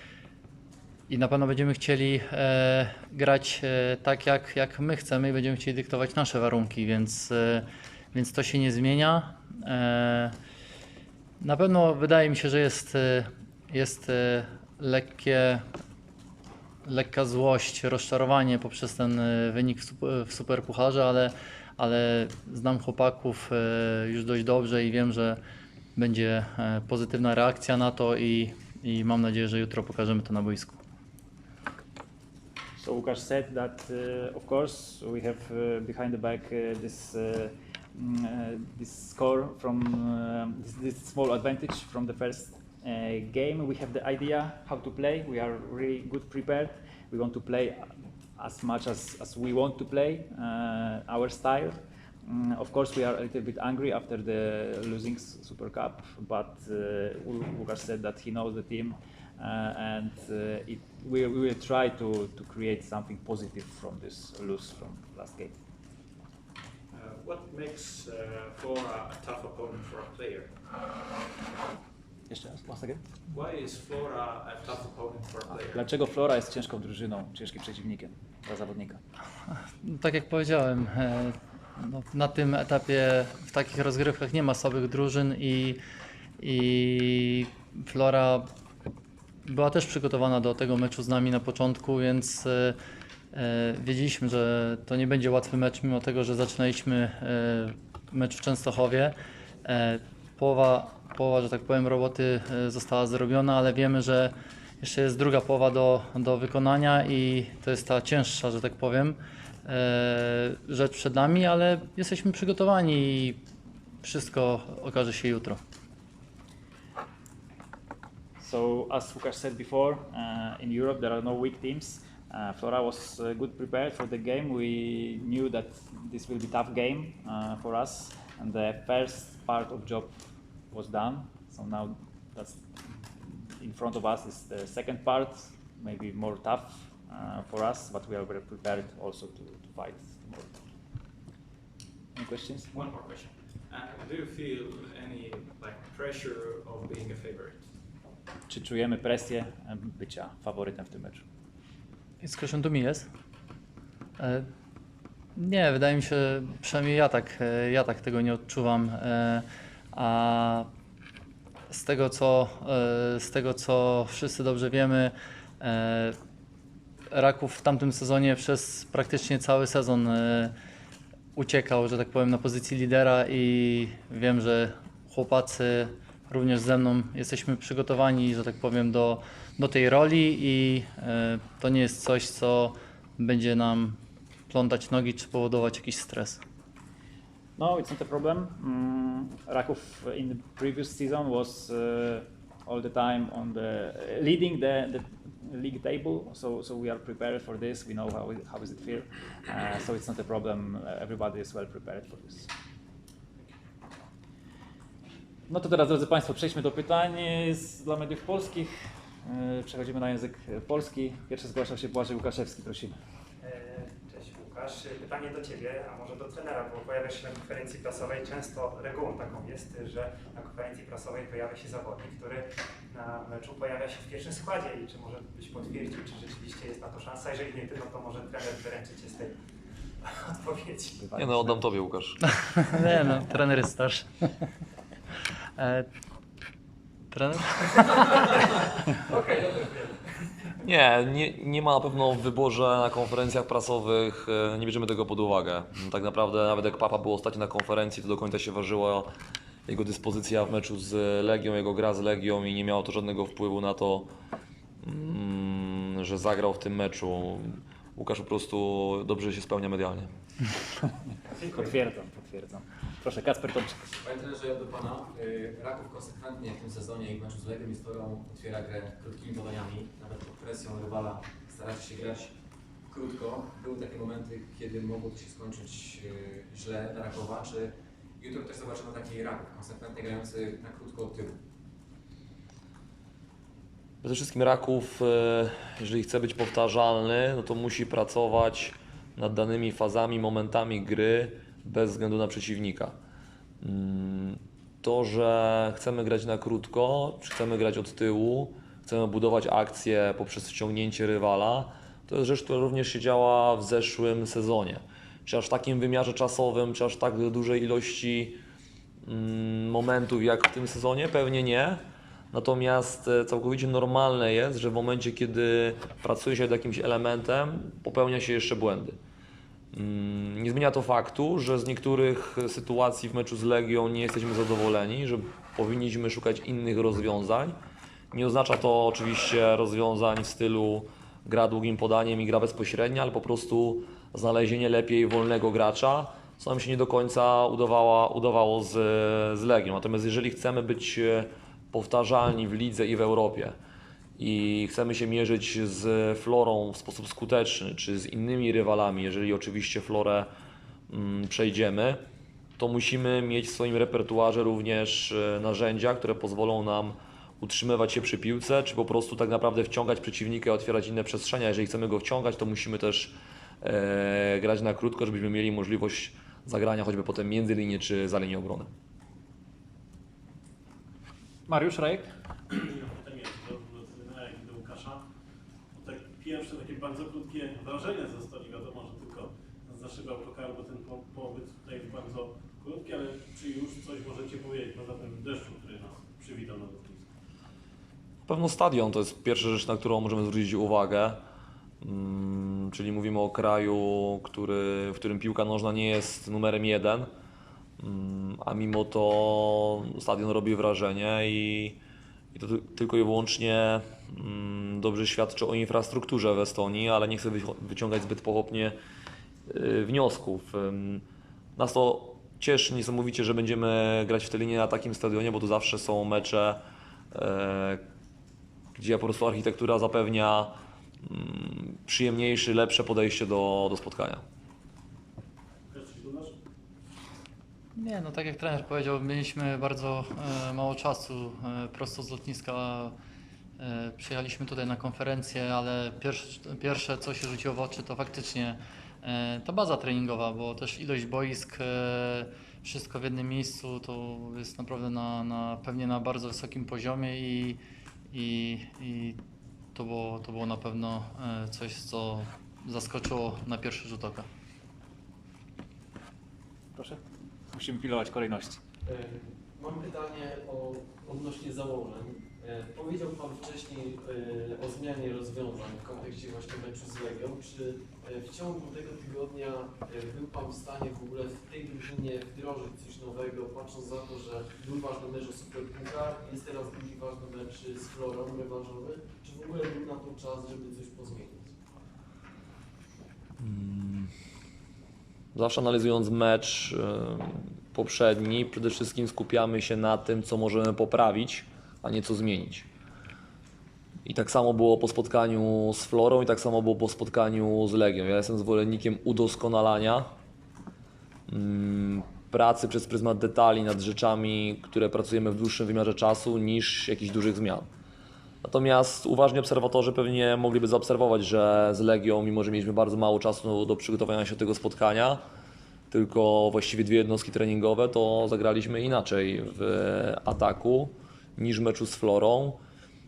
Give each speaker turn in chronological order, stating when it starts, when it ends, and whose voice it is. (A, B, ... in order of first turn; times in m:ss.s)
0:01.1-0:10.3 A
0:11.4-0:15.6 A
0:16.8-0:25.4 A
0:26.0-0:30.8 A
0:32.8-1:05.5 B
1:06.9-1:10.6 C
1:12.3-1:13.0 B
1:13.3-1:15.9 C
1:15.7-1:19.0 B
1:19.8-1:25.8 A
1:26.4-1:28.5 A
1:29.4-1:32.8 A
1:33.3-1:53.4 A
1:54.0-1:55.6 A
1:58.4-2:10.1 B
2:10.7-2:20.6 B
2:22.2-2:22.7 B
2:22.7-2:27.7 C
2:28.5-2:31.2 B
2:32.2-2:33.1 A
2:34.2-2:34.5 A
2:35.4-2:40.7 A
2:41.7-2:46.2 A
2:47.1-2:50.5 A
2:51.4-3:04.0 A
3:04.5-3:06.4 A
3:07.6-3:22.5 B
3:25.5-3:28.7 B
3:29.2-3:33.0 B
3:33.4-3:49.4 D
3:50.0-3:51.1 D
3:51.0-3:51.5 B
3:51.1-3:52.2 E
3:52.6-3:54.3 A
3:55.6-3:55.9 A
3:57.1-3:58.3 A
3:59.1-4:00.0 D
4:00.6-4:09.1 E
4:09.7-4:14.1 E
4:14.8-4:20.1 E
4:21.4-4:23.9 B
4:24.0-4:32.3 F
4:32.9-4:41.4 F
4:44.0-4:53.0 E
4:53.6-5:08.4 E
5:09.0-5:19.0 E
5:19.7-5:27.6 E
5:28.1-5:43.6 E
5:44.2-5:50.3 E
5:50.9-5:52.0 E
5:52.6-6:08.7 E
6:11.5-6:12.1 B
6:12.6-6:15.0 G
6:15.7-6:27.1 G
6:28.2-6:31.2 E
6:31.8-6:37.1 E
6:37.8-6:41.8 E
6:42.3-6:48.8 E
6:49.4-6:51.0 E
6:51.6-6:57.8 E
6:58.7-7:04.2 E
7:05.7-7:06.3 G
7:07.8-7:13.0 A
7:13.6-7:27.6 A
7:28.1-7:29.2 A
7:29.7-7:34.3 A
7:36.7-7:38.6 B
7:38.8-8:01.6 H
8:03.4-8:04.1 E
8:05.3-8:12.7 E
8:14.0-8:20.1 E
8:21.3-8:27.7 E
8:28.4-8:35.2 E
8:35.9-8:42.6 E